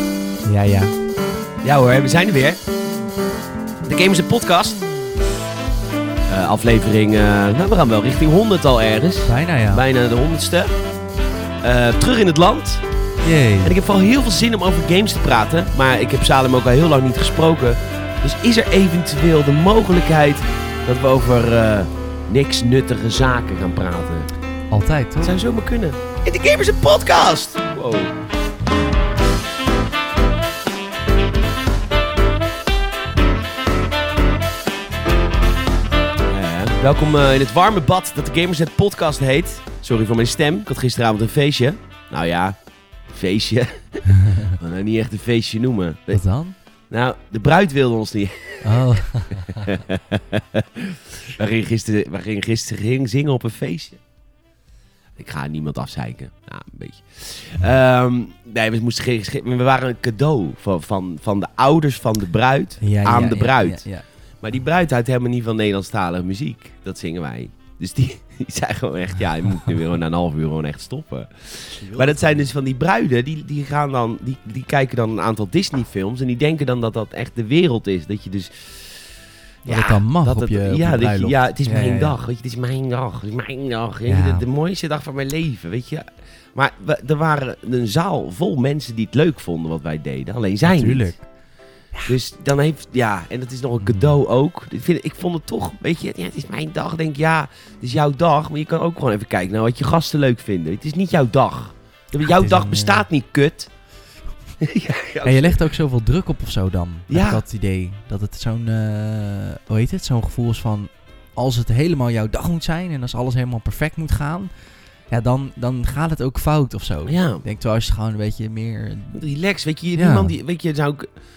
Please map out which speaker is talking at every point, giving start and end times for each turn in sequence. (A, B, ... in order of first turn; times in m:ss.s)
0:00.4-0:01.0 A
0:01.6-0:02.6 B
0:03.8-0:04.8 B
0:06.3-0:10.7 B
0:09.2-0:09.8 A
0:11.6-0:12.8 B
0:13.2-0:13.8 A
0:13.6-0:24.3 B
0:24.7-0:25.4 A
0:25.2-0:28.1 B
0:36.3-0:46.2 B
0:44.1-0:44.6 A
0:46.1-0:46.6 A
0:46.9-0:54.0 B
0:48.6-0:49.7 A
0:55.2-1:03.9 B
1:02.8-1:04.0 A
1:04.4-1:19.1 B
1:11.7-1:12.4 A
1:19.6-1:22.2 A
1:19.6-1:31.2 B
1:24.1-1:24.4 A
1:30.6-1:31.3 A
1:32.1-1:43.7 B
1:33.8-1:34.2 A
1:42.2-1:43.0 A
1:44.6-1:45.8 B
1:45.2-1:54.5 A
1:47.1-1:47.4 B
1:55.1-1:59.2 A
1:57.1-1:57.4 B
1:59.1-2:01.1 B
2:00.0-2:00.3 A